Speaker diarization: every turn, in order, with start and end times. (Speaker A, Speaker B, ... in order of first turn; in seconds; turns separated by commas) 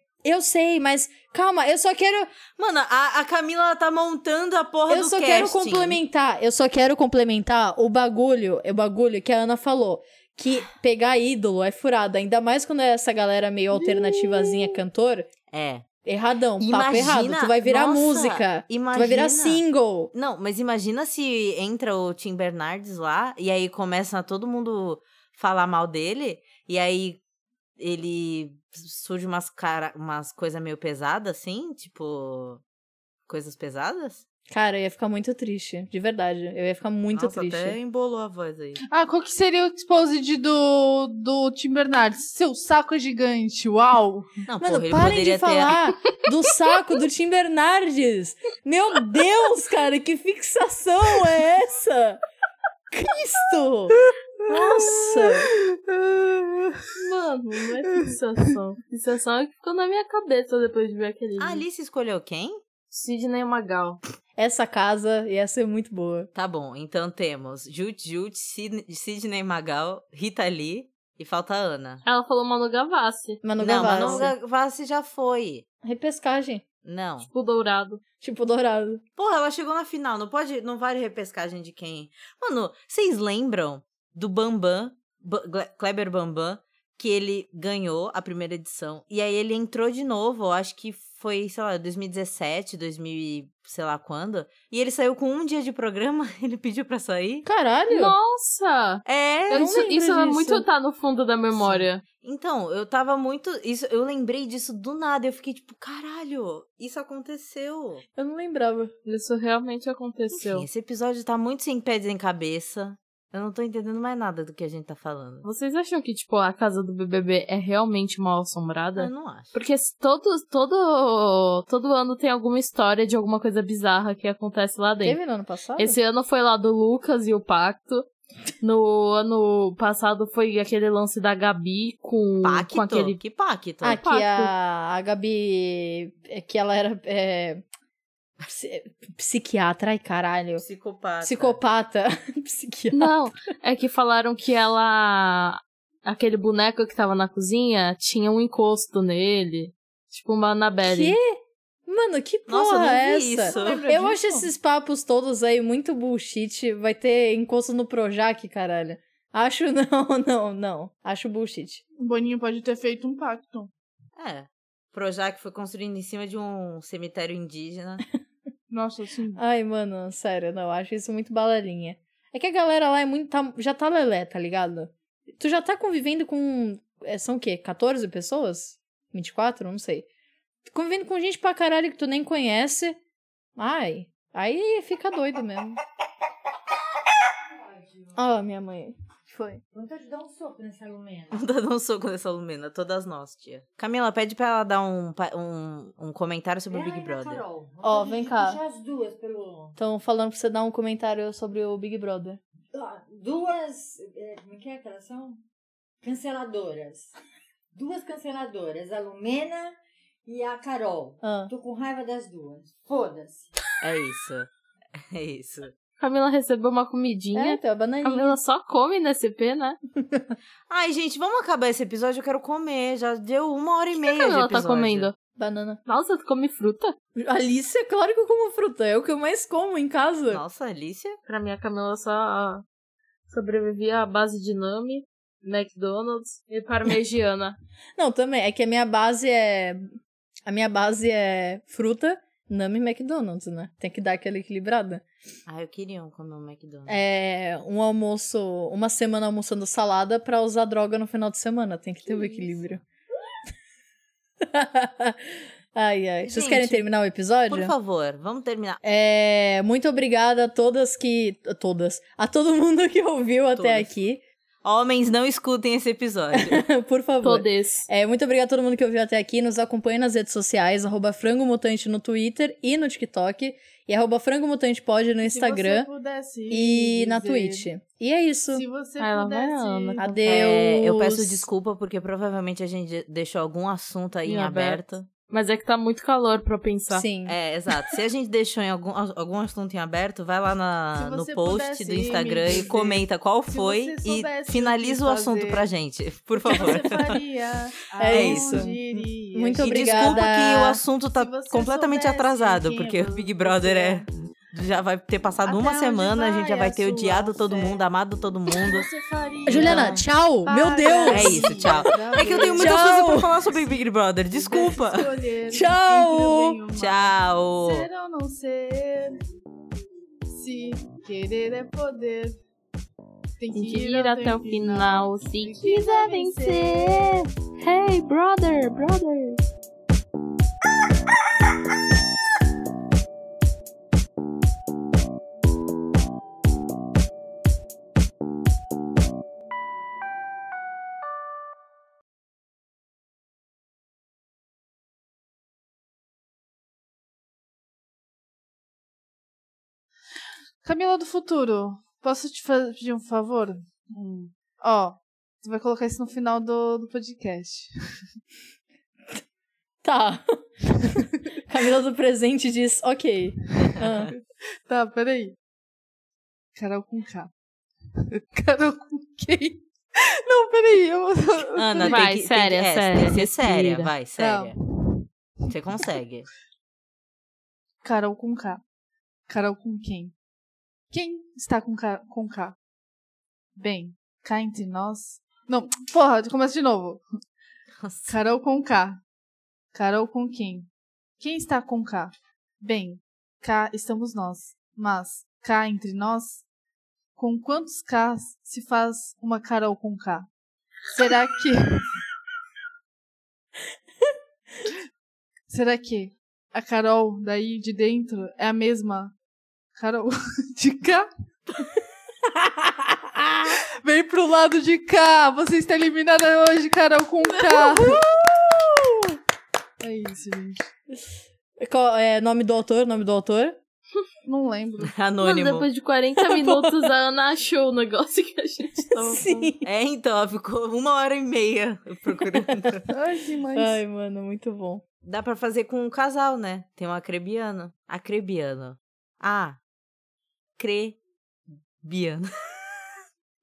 Speaker A: 0.2-2.3, Speaker B: 2.5-6.0, Speaker A: 4.9-15.3, Speaker C: 13.7-14.8, Speaker B: 15.5-15.9, Speaker A: 16.1-20.1, Speaker B: 16.6-19.6, Speaker B: 20.1-27.2, Speaker B: 27.8-32.6, Speaker B: 33.3-34.2, Speaker A: 34.5-37.8, Speaker B: 37.1-38.8, Speaker C: 38.9-44.4, Speaker B: 44.5-45.7, Speaker A: 44.6-52.2, Speaker A: 52.9-54.0, Speaker A: 54.5-55.5, Speaker C: 54.6-56.9, Speaker D: 57.0-61.6, Speaker B: 61.4-62.6, Speaker D: 62.9-64.0, Speaker A: 64.4-66.3, Speaker B: 66.3-72.0, Speaker D: 72.0-74.3, Speaker A: 73.4-74.3, Speaker B: 73.6-75.7, Speaker A: 75.8-76.7, Speaker B: 76.8-77.3, Speaker D: 77.2-78.0, Speaker A: 78.2-79.0, Speaker B: 79.2-97.5, Speaker A: 97.5-98.2, Speaker D: 97.9-102.0, Speaker B: 99.0-99.7, Speaker A: 99.5-100.7, Speaker B: 101.5-108.0, Speaker A: 108.2-108.9, Speaker D: 109.0-110.7, Speaker B: 110.4-115.5, Speaker D: 115.4-125.2, Speaker B: 119.0-119.5, Speaker A: 125.0-126.0, Speaker D: 125.8-128.1, Speaker D: 128.6-133.2, Speaker B: 132.4-134.0, Speaker A: 133.8-137.6, Speaker D: 134.0-134.5, Speaker A: 138.4-140.6, Speaker B: 140.6-141.6, Speaker A: 141.2-143.1, Speaker D: 142.9-151.2, Speaker A: 150.8-161.8, Speaker B: 152.5-153.9, Speaker C: 153.4-154.5, Speaker C: 162.0-163.7, Speaker B: 164.2-168.0, Speaker C: 168.7-169.4, Speaker A: 169.3-180.1, Speaker A: 180.7-183.0, Speaker A: 183.6-185.8, Speaker E: 187.6-188.2, Speaker A: 188.2-189.6, Speaker E: 189.7-191.5, Speaker B: 191.3-197.5, Speaker E: 196.7-199.8, Speaker A: 197.8-198.6, Speaker A: 199.8-202.4, Speaker E: 202.7-205.4, Speaker E: 206.0-207.1, Speaker E: 207.7-213.6, Speaker A: 211.2-211.5, Speaker B: 213.8-214.5, Speaker B: 215.1-215.8, Speaker D: 216.0-219.8, Speaker A: 217.3-218.4, Speaker A: 220.0-220.4, Speaker B: 220.7-225.1, Speaker D: 224.0-225.2, Speaker A: 225.4-225.8, Speaker D: 225.9-227.0, Speaker A: 227.2-230.4, Speaker B: 230.3-231.2, Speaker D: 231.3-232.6, Speaker D: 233.3-237.6, Speaker A: 238.0-239.9, Speaker A: 240.5-245.0, Speaker B: 245.5-247.0, Speaker A: 246.9-252.8, Speaker A: 254.4-257.7, Speaker B: 256.2-256.9, Speaker B: 257.5-258.8, Speaker A: 258.8-264.2, Speaker B: 263.6-263.9, Speaker B: 264.6-266.6, Speaker A: 266.3-275.9, Speaker D: 267.2-267.9, Speaker C: 275.2-277.7, Speaker A: 276.5-278.7, Speaker C: 278.5-280.2, Speaker D: 279.0-280.4, Speaker A: 280.0-281.5, Speaker B: 280.3-285.1, Speaker D: 284.2-287.1, Speaker A: 286.9-287.4, Speaker B: 287.3-297.2, Speaker C: 291.0-295.6, Speaker C: 296.5-300.3, Speaker A: 298.0-300.8, Speaker B: 298.1-298.7, Speaker B: 299.6-308.9, Speaker C: 301.1-304.1, Speaker C: 305.4-307.8, Speaker C: 308.5-313.8, Speaker A: 309.5-313.4, Speaker B: 309.5-310.1, Speaker B: 311.1-315.1, Speaker C: 314.3-319.2, Speaker A: 315.5-316.6, Speaker B: 316.8-317.9, Speaker C: 320.3-322.4, Speaker C: 323.4-327.2, Speaker D: 323.5-329.4, Speaker C: 350.6-357.7, Speaker A: 359.8-364.1, Speaker B: 363.6-364.1, Speaker C: 364.1-365.4, Speaker C: 366.6-367.3, Speaker C: 368.0-372.0, Speaker B: 371.6-374.6, Speaker D: 371.8-373.9, Speaker C: 374.2-375.5, Speaker B: 375.5-376.3, Speaker C: 377.8-378.6, Speaker C: 379.3-380.1, Speaker C: 380.9-382.6, Speaker C: 383.6-387.0, Speaker B: 387.8-388.1, Speaker C: 388.1-389.0, Speaker C: 389.7-390.7, Speaker C: 391.2-396.4, Speaker C: 397.2-400.3, Speaker C: 400.9-401.8, Speaker C: 405.5-409.1, Speaker C: 409.8-411.1, Speaker A: 412.3-413.6, Speaker C: 413.8-418.0, Speaker A: 417.3-419.2, Speaker C: 419.8-420.7, Speaker A: 421.6-423.6, Speaker C: 424.2-424.9, Speaker B: 424.8-425.7, Speaker D: 425.2-429.5, Speaker A: 426.4-426.7, Speaker A: 428.9-429.7, Speaker B: 429.6-432.9, Speaker A: 432.2-432.8, Speaker C: 432.9-433.8, Speaker A: 433.5-434.8, Speaker B: 435.0-439.6, Speaker B: 440.6-441.0, Speaker B: 441.8-442.8